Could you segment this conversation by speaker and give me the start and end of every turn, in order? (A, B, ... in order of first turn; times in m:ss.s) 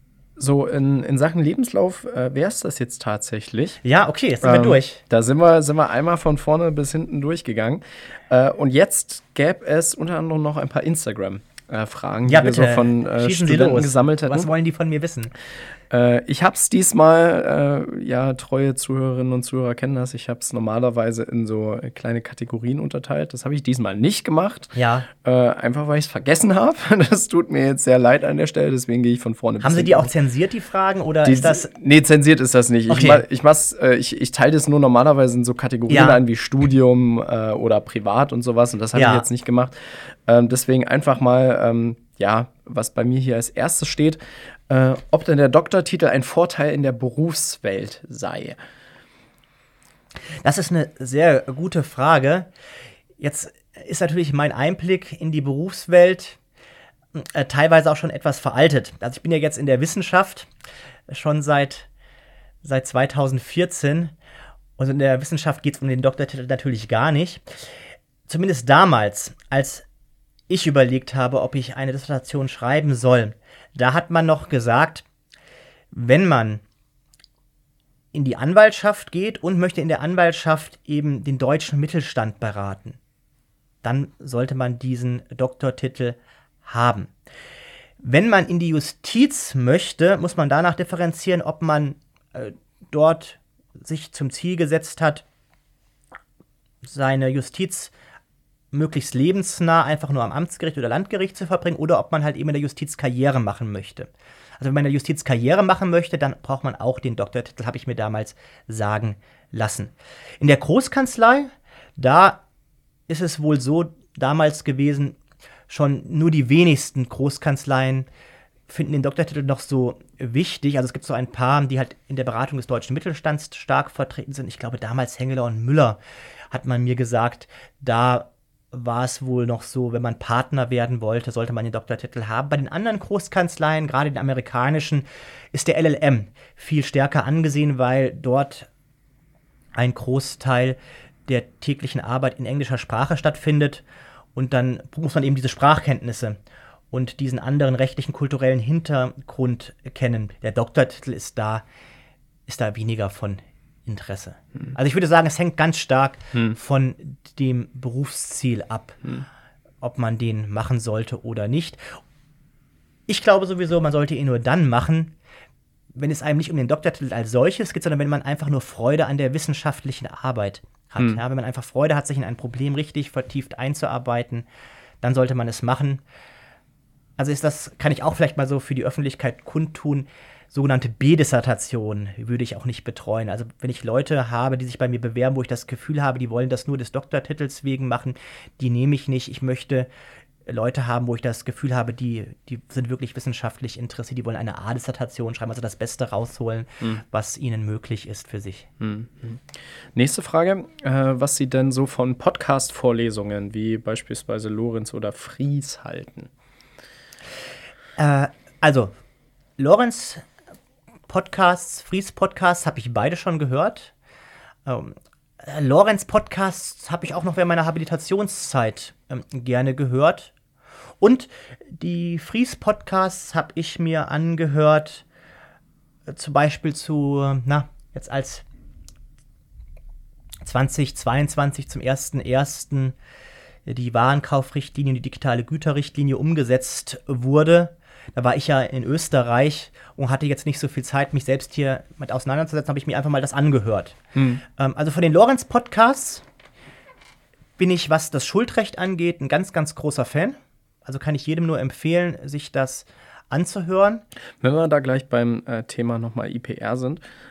0:00.4-0:03.8 A
0:03.8-0:05.0 B
0:04.4-0:14.5 A
0:12.2-0:15.3 B
0:15.9-0:30.1 A
0:24.8-0:25.1 B
0:29.6-0:31.7 B
0:31.2-0:48.6 A
0:32.9-0:33.2 B
0:35.9-0:36.2 B
0:38.9-0:39.3 B
0:50.4-0:52.5 B
0:53.2-0:56.4 B
0:57.1-1:00.5 B
1:01.1-1:01.9 B
1:02.6-1:04.1 B
1:04.8-1:09.9 B
1:10.5-1:15.0 B
1:15.9-1:16.6 B
1:18.1-1:23.0 B
1:23.8-1:27.1 B
1:28.0-1:35.2 B
1:36.8-1:37.9 B
1:38.7-1:52.4 B
1:53.1-1:55.2 B
1:55.7-1:58.1 B
1:58.7-2:06.0 B
2:06.5-2:18.7 B
2:19.8-2:26.4 B
2:26.9-2:31.6 B
2:32.5-2:39.0 B
2:39.8-2:42.0 B
2:43.1-2:45.2 B
2:45.9-2:54.5 B
2:55.0-2:56.0 B
2:57.2-3:09.9 B
3:10.4-3:18.7 B
3:18.8-3:26.3 A
3:28.0-3:29.0 B
3:29.6-3:30.2 B
3:31.1-3:33.9 B
3:34.6-3:40.3 B
3:41.0-3:45.0 B
3:46.1-3:48.4 B
3:50.4-3:53.0 B
3:53.7-4:06.2 B
4:04.2-4:04.4 A
4:07.6-4:14.0 B
4:14.4-4:17.0 A